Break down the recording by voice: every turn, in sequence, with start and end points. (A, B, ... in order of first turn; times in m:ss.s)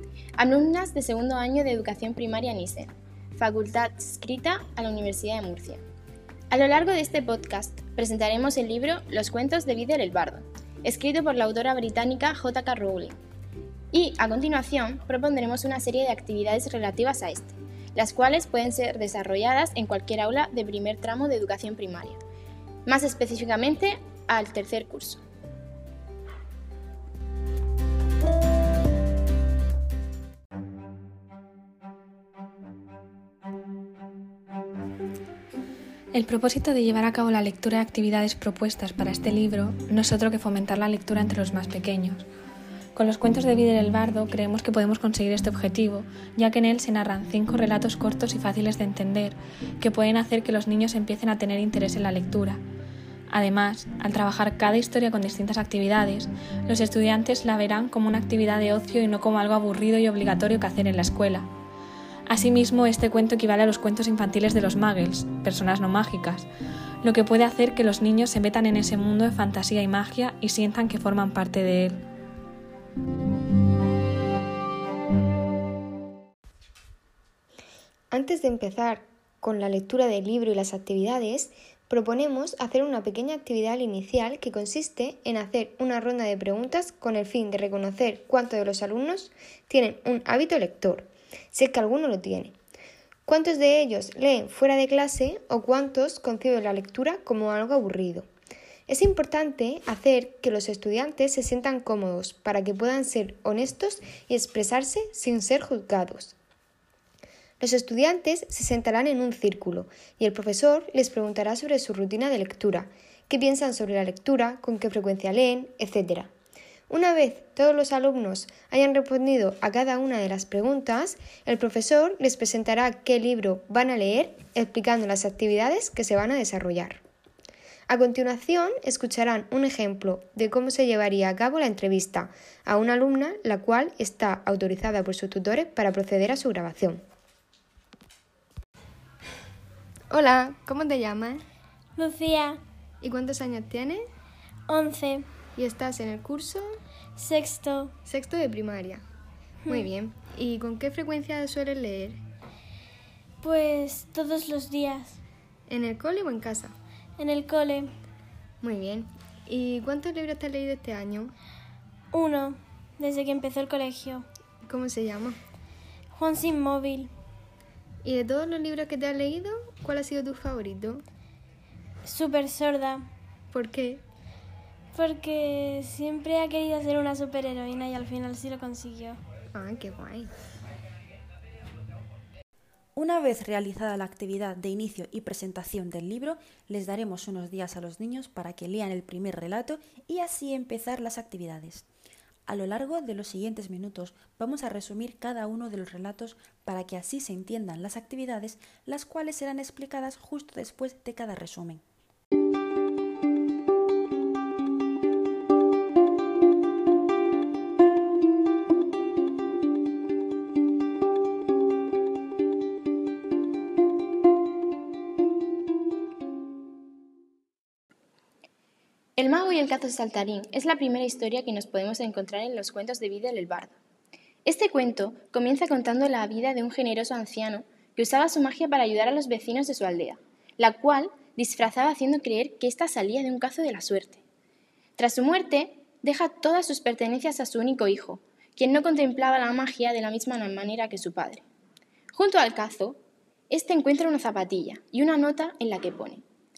0:00.4-0:05.8 A
0:06.5-0:13.2 A
0:13.9-0:22.2 A
0:22.8-0:25.2 A
0:36.1-0:42.3 B
0:43.0-0:52.6 B
0:53.3-1:01.5 B
1:02.3-1:06.5 B
1:07.0-1:12.0 B
1:18.1-1:32.6 C
1:33.3-1:38.3 C
1:38.9-1:46.4 C
1:47.6-1:56.3 C
1:56.9-2:07.0 C
2:07.9-2:17.0 C
2:20.1-2:21.4 C
2:22.0-2:22.6 D
2:23.0-2:24.1 C
2:24.7-2:25.3 D
2:25.6-2:26.8 C
2:27.2-2:27.9 D
2:28.1-2:29.0 C
2:29.7-2:32.2 C
2:33.4-2:35.2 D
2:35.7-2:36.7 C
2:37.2-2:37.9 D
2:38.6-2:41.3 C
2:42.1-2:44.3 D
2:44.7-2:45.4 C
2:46.1-2:47.1 D
2:48.0-2:51.0 C
2:52.0-2:53.1 D
2:53.5-2:54.0 C
2:54.9-2:59.2 D
2:59.5-3:00.3 C
3:03.0-3:11.9 E
3:12.5-3:21.8 E
3:39.2-3:43.8 A
3:44.4-3:54.2 A
3:55.0-4:01.4 A
4:02.1-4:06.2 A